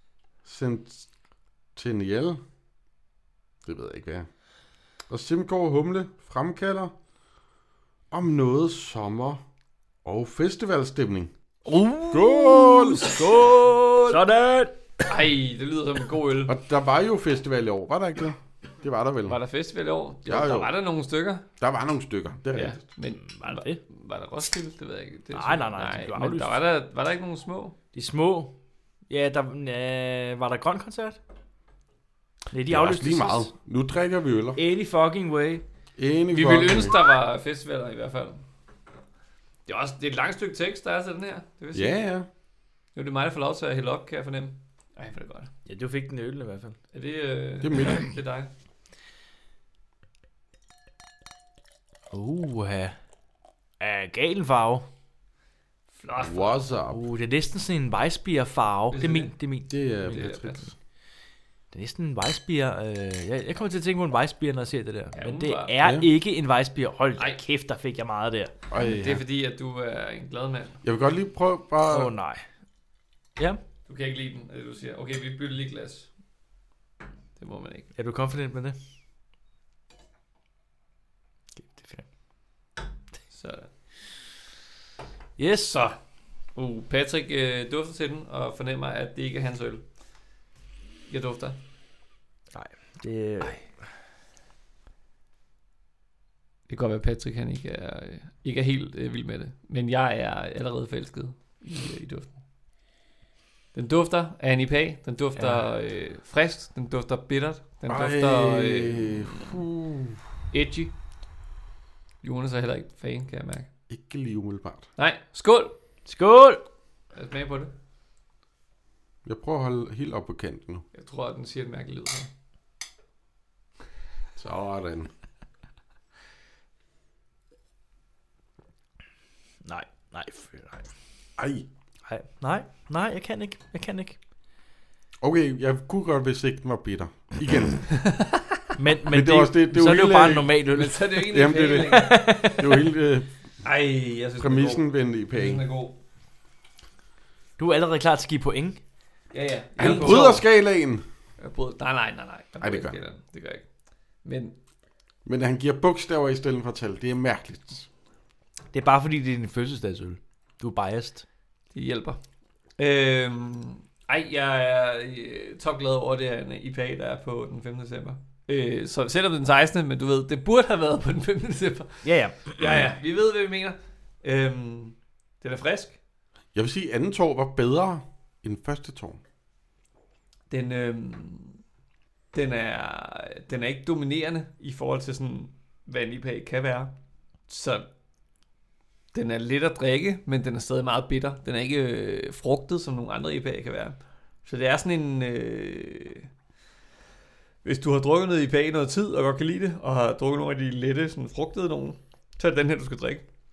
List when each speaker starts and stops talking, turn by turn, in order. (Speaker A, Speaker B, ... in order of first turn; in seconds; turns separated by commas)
Speaker A: 0.4-1.1, Speaker A: 1.7-2.4, Speaker A: 3.6-4.3, Speaker A: 5.1-6.9, Speaker A: 8.1-9.4, Speaker A: 10.0-11.3, Speaker B: 11.7-14.2, Speaker A: 12.1-13.2, Speaker C: 13.0-15.0, Speaker B: 15.1-16.5, Speaker A: 16.4-19.4, Speaker B: 19.3-21.4, Speaker A: 20.2-20.8, Speaker A: 21.6-22.8, Speaker B: 22.5-27.8, Speaker C: 23.2-23.8, Speaker C: 25.3-26.6, Speaker C: 27.9-28.6, Speaker C: 29.1-31.2, Speaker C: 32.5-33.5, Speaker A: 32.7-34.6, Speaker C: 34.5-35.6, Speaker A: 36.0-37.0, Speaker B: 36.3-38.4, Speaker B: 39.7-42.0, Speaker A: 41.7-42.3, Speaker B: 42.9-45.5, Speaker C: 45.6-46.8, Speaker B: 46.9-48.5, Speaker A: 47.6-48.1, Speaker C: 52.1-53.0, Speaker C: 53.8-54.9, Speaker B: 56.0-56.6, Speaker A: 56.2-57.0, Speaker C: 56.9-59.8, Speaker B: 58.9-59.3, Speaker A: 59.7-60.7, Speaker B: 60.0-60.6, Speaker C: 61.7-68.5, Speaker B: 65.1-65.8, Speaker A: 65.8-66.1, Speaker A: 68.7-69.2, Speaker B: 68.8-70.8, Speaker A: 70.8-72.1, Speaker C: 71.9-72.4, Speaker B: 73.8-76.1, Speaker B: 77.4-77.9, Speaker C: 77.9-78.8, Speaker C: 81.6-82.0, Speaker B: 83.3-83.7, Speaker C: 85.4-85.8, Speaker B: 85.7-86.0, Speaker B: 86.5-89.8, Speaker B: 91.1-91.6, Speaker C: 92.5-93.7, Speaker B: 96.7-102.4, Speaker B: 103.7-109.6, Speaker C: 105.4-105.6, Speaker A: 107.9-110.3, Speaker B: 110.5-110.9, Speaker B: 112.2-113.7, Speaker A: 113.9-114.9, Speaker B: 115.0-115.7, Speaker C: 116.0-116.6, Speaker B: 117.1-117.7, Speaker A: 119.2-120.8, Speaker B: 120.9-122.3, Speaker A: 124.3-125.1, Speaker C: 129.6-130.9, Speaker A: 131.4-131.7, Speaker C: 132.1-134.2, Speaker A: 135.2-137.9, Speaker C: 138.8-142.8, Speaker A: 139.1-140.6, Speaker B: 140.7-142.4, Speaker A: 141.3-143.3, Speaker B: 143.6-146.0, Speaker A: 144.4-145.6, Speaker C: 147.6-148.8, Speaker B: 149.3-150.5, Speaker A: 149.8-151.0, Speaker C: 149.8-150.2, Speaker B: 151.4-153.7, Speaker A: 152.6-153.0, Speaker B: 154.2-154.5, Speaker A: 155.2-157.9, Speaker C: 158.7-161.2, Speaker B: 161.7-162.2, Speaker B: 162.8-176.0, Speaker C: 172.0-172.8, Speaker A: 176.5-179.2, Speaker B: 180.5-181.6, Speaker B: 182.3-186.9, Speaker B: 187.5-187.9, Speaker B: 189.1-196.3, Speaker B: 197.6-203.2